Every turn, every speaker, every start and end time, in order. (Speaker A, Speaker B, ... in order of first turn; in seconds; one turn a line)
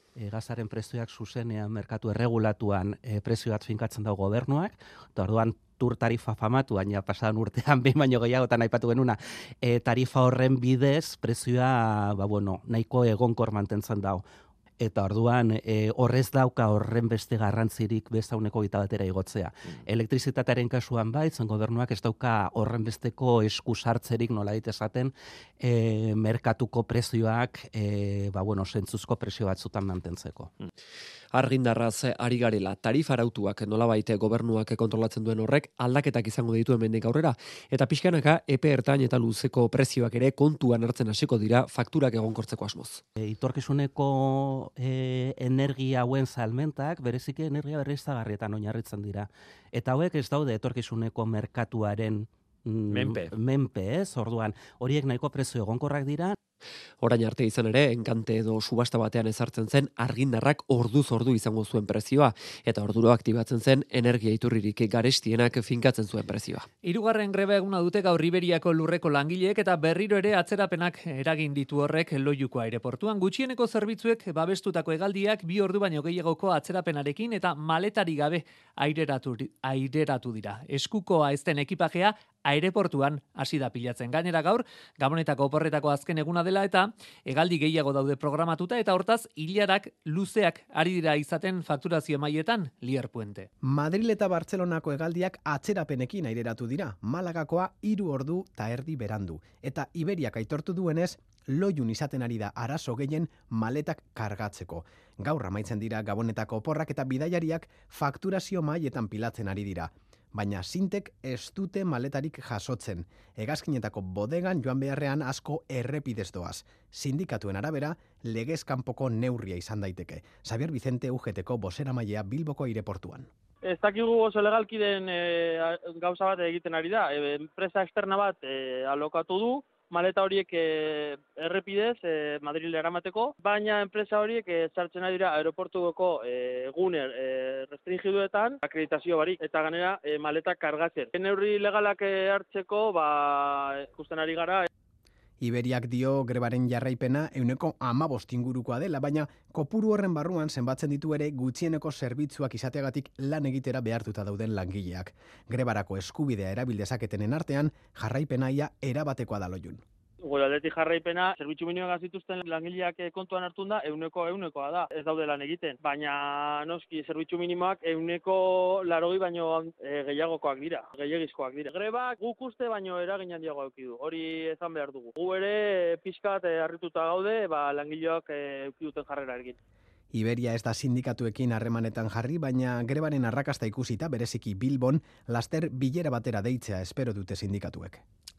Speaker A: 0.1-14.2
Speaker A: 14.8-30.5
Speaker B: 31.3-43.0
Speaker A: 43.2-56.4
Speaker B: 57.0-66.7
Speaker C: 66.8-93.5
Speaker D: 93.6-123.3
Speaker E: 123.7-144.7
Speaker D: 145.4-159.8
Speaker E: 160.2-179.6
Speaker D: 180.1-188.0